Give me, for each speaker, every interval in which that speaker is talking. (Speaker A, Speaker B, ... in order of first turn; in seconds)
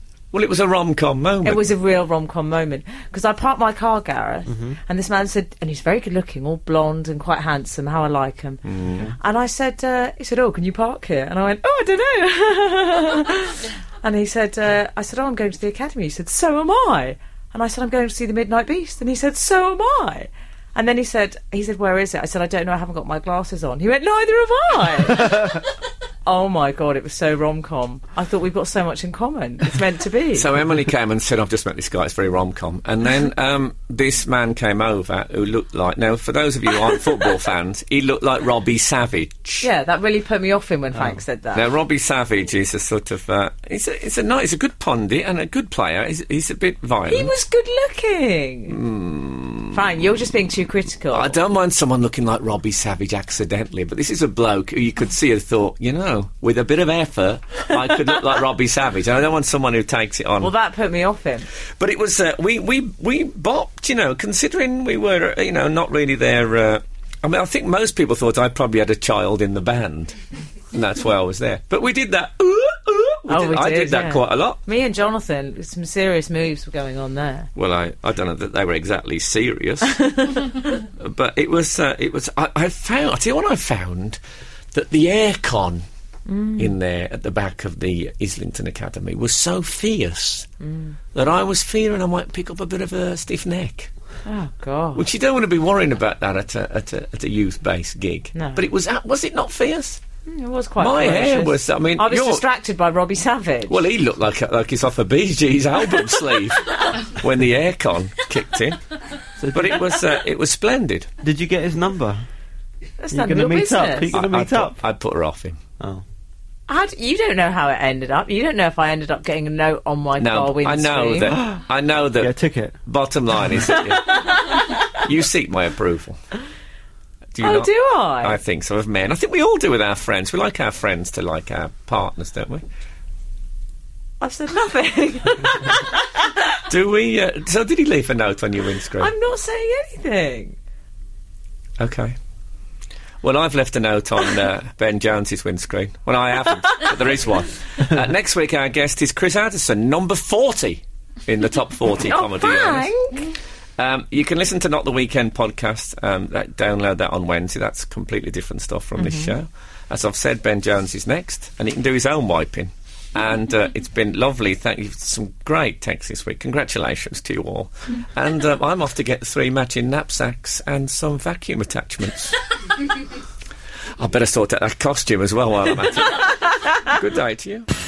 Speaker A: 0.3-1.7, 8.6-9.1, 30.4-39.7, 41.5-47.3, 48.7-49.7, 51.1-60.5, 61.8-70.2, 70.7-74.6, 77.5-80.0, 81.0-84.2, 84.7-85.8, 86.6-90.5, 91.1-93.9, 95.0-100.0, 100.8-102.4, 103.7-108.8, 109.5-111.1, 114.1-115.6, 120.2-124.3, 124.9-126.2, 127.3-132.6, 136.7-139.1, 141.8-142.2, 143.2-152.9, 153.8-172.4, 174.0-177.7
Speaker B: 1.4-25.6, 26.2-30.5, 39.6-41.6, 47.1-48.8, 49.7-51.4, 60.4-61.5, 73.3-77.5, 79.9-80.5, 86.3-86.7, 90.6-90.9, 94.2-95.0, 98.3-98.6, 100.3-103.8, 113.0-114.1, 116.7-121.4, 123.5-124.8, 127.4-128.4, 134.2-136.3, 139.0-140.6, 152.0-153.3, 159.0-159.3
Speaker C: 4.5-4.7, 109.4-109.7, 111.2-112.2, 113.1-114.8, 122.2-122.8